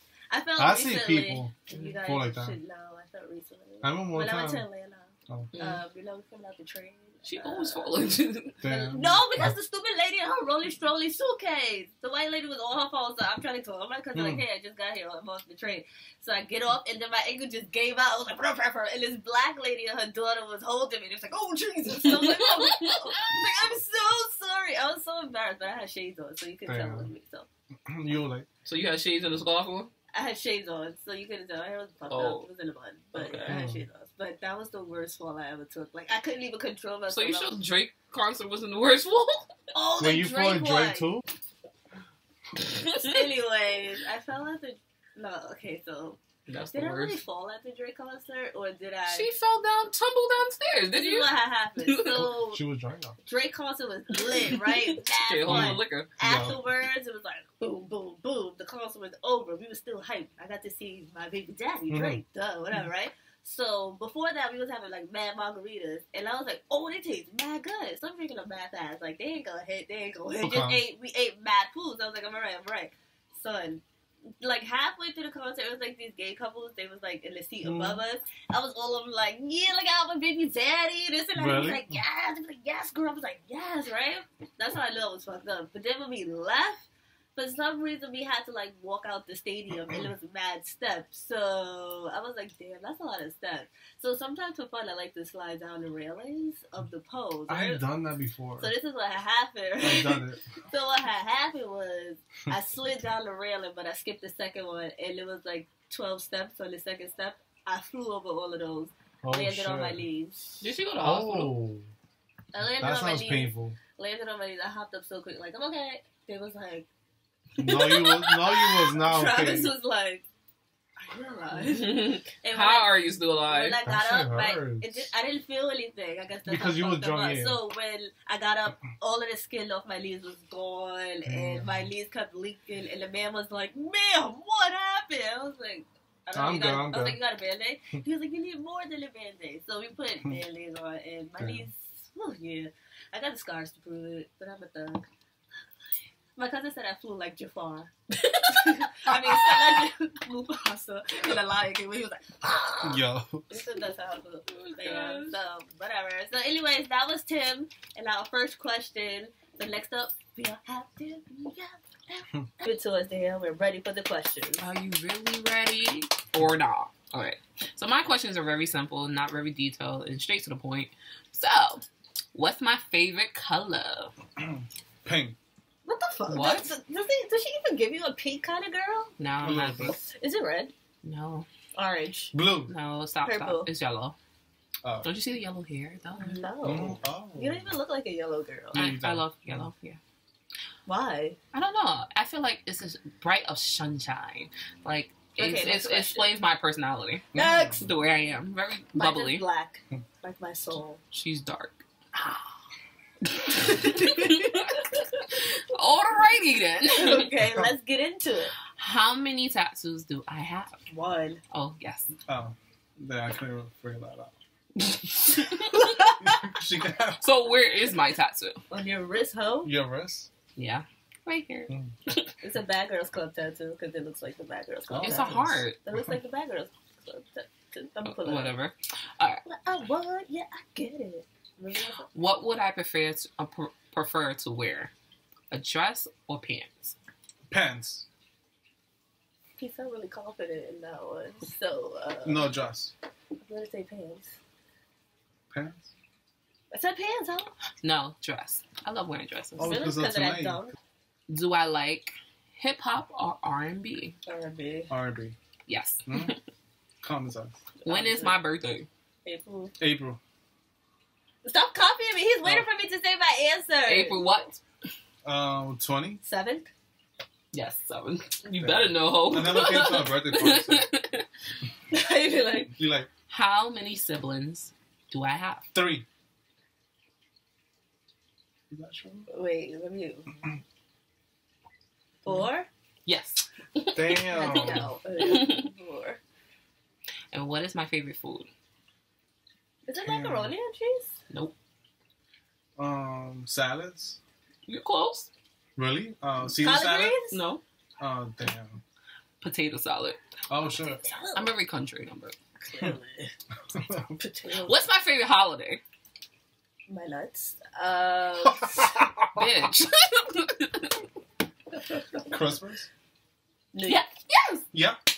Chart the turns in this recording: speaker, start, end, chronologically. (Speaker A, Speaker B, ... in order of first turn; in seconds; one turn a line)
Speaker A: 0.3-8.0
Speaker B: 0.6-2.6
Speaker B: 3.8-4.7
Speaker C: 5.5-5.8
Speaker C: 7.2-8.6
Speaker B: 8.6-9.4
Speaker A: 8.6-27.5
Speaker B: 14.1-14.4
Speaker C: 21.9-23.2
Speaker B: 26.6-27.1
Speaker B: 27.9-28.5
Speaker C: 28.6-29.9
Speaker A: 30.1-37.6
Speaker C: 32.1-32.5
Speaker C: 33.1-33.5
Speaker B: 33.5-33.9
Speaker C: 37.1-39.5
Speaker A: 39.7-41.1
Speaker B: 40.0-41.2
Speaker C: 42.6-43.1
Speaker A: 42.9-49.3
Speaker C: 46.5-47.2
Speaker C: 49.1-52.3
Speaker A: 50.9-52.6
Speaker B: 52.1-53.2
Speaker A: 53.2-73.8
Speaker C: 54.3-56.1
Speaker B: 55.5-56.6
Speaker B: 61.9-62.2
Speaker B: 70.4-70.8
Speaker A: 74.4-97.8
Speaker B: 77.6-78.0
Speaker B: 81.3-82.0
Speaker B: 97.5-98.7
Speaker A: 98.6-110.6
Speaker B: 99.8-100.4
Speaker B: 109.2-110.0
Speaker C: 110.6-111.6
Speaker B: 111.0-111.9
Speaker A: 112.5-116.9
Speaker B: 112.8-113.8
Speaker A: 117.5-120.2
Speaker B: 117.6-119.7
Speaker A: 121.0-145.1
Speaker C: 121.5-123.8
Speaker B: 123.8-125.1
Speaker B: 126.5-127.6
Speaker B: 131.3-131.8
Speaker B: 136.3-137.2
Speaker B: 141.4-141.6
Speaker A: 146.3-164.6
Speaker B: 152.8-153.5
Speaker C: 154.5-155.4
Speaker C: 164.6-174.1
Speaker B: 174.4-175.4
Speaker A: 175.8-179.1
Speaker C: 176.3-176.7
Speaker C: 179.2-180.0
Speaker B: 179.4-180.0
Speaker A: 179.8-180.7
Speaker C: 181.0-181.5
Speaker A: 181.7-182.3
Speaker B: 182.3-182.7
Speaker C: 182.7-184.2
Speaker A: 183.2-183.7
Speaker B: 184.8-185.1
Speaker C: 185.0-186.4
Speaker A: 186.2-188.9
Speaker B: 186.6-187.7
Speaker B: 188.7-189.7
Speaker C: 188.7-190.0
Speaker A: 190.8-191.4
Speaker C: 191.5-199.4
Speaker A: 195.4-196.4
Speaker B: 197.3-197.9
Speaker A: 197.3-197.8
Speaker A: 198.9-201.0
Speaker C: 201.1-201.8
Speaker A: 203.5-205.2
Speaker C: 203.5-207.3
Speaker A: 206.8-208.5
Speaker C: 208.8-210.8
Speaker A: 210.9-211.4
Speaker C: 211.5-212.1
Speaker B: 212.3-214.3
Speaker C: 215.0-216.3
Speaker B: 215.8-217.3
Speaker C: 217.2-218.6
Speaker A: 218.7-219.7
Speaker B: 219.6-220.3
Speaker C: 220.6-221.7
Speaker B: 221.7-221.9
Speaker A: 222.4-228.6
Speaker B: 224.9-226.1
Speaker C: 225.0-225.8
Speaker C: 228.0-229.4
Speaker A: 229.4-232.1
Speaker C: 232.1-234.9
Speaker C: 235.5-236.9
Speaker B: 237.5-238.1
Speaker A: 239.6-242.5
Speaker B: 242.2-242.9
Speaker A: 243.4-244.3
Speaker B: 245.5-245.9
Speaker A: 246.7-247.5
Speaker C: 247.8-249.8
Speaker B: 249.6-250.7
Speaker A: 249.6-250.7
Speaker C: 251.3-254.2
Speaker A: 254.2-254.9
Speaker B: 254.9-255.3
Speaker C: 255.7-256.4
Speaker B: 256.1-256.3
Speaker B: 257.0-257.6
Speaker A: 257.8-258.4
Speaker C: 257.9-258.9
Speaker A: 259.2-259.8
Speaker B: 259.8-260.2
Speaker A: 261.4-264.2
Speaker C: 263.9-264.6
Speaker B: 265.2-266.2
Speaker A: 266.2-266.7
Speaker C: 267.5-271.2
Speaker B: 268.6-270.9
Speaker A: 271.9-272.7
Speaker B: 272.7-273.1
Speaker C: 273.3-275.6
Speaker B: 275.7-276.1
Speaker B: 278.7-279.3
Speaker A: 279.3-280.3
Speaker A: 282.2-282.7
Speaker C: 283.1-285.7
Speaker B: 283.9-284.9
Speaker A: 284.3-286.2
Speaker C: 287.3-288.5
Speaker A: 289.8-291.1
Speaker B: 290.0-290.5
Speaker C: 291.3-291.5
Speaker B: 292.8-294.2
Speaker C: 294.7-295.3
Speaker B: 295.8-297.2
Speaker A: 296.6-297.4
Speaker C: 297.3-297.6
Speaker B: 298.0-298.8
Speaker C: 299.4-300.2
Speaker B: 300.5-301.0
Speaker A: 300.7-301.6
Speaker C: 301.3-302.4
Speaker A: 302.6-303.3
Speaker B: 303.7-304.1
Speaker A: 304.2-304.8
Speaker C: 304.5-305.8
Speaker A: 306.9-308.9
Speaker B: 308.4-309.5
Speaker C: 309.3-311.0
Speaker B: 312.2-312.9
Speaker A: 313.7-314.0
Speaker C: 313.8-314.6
Speaker B: 314.7-315.0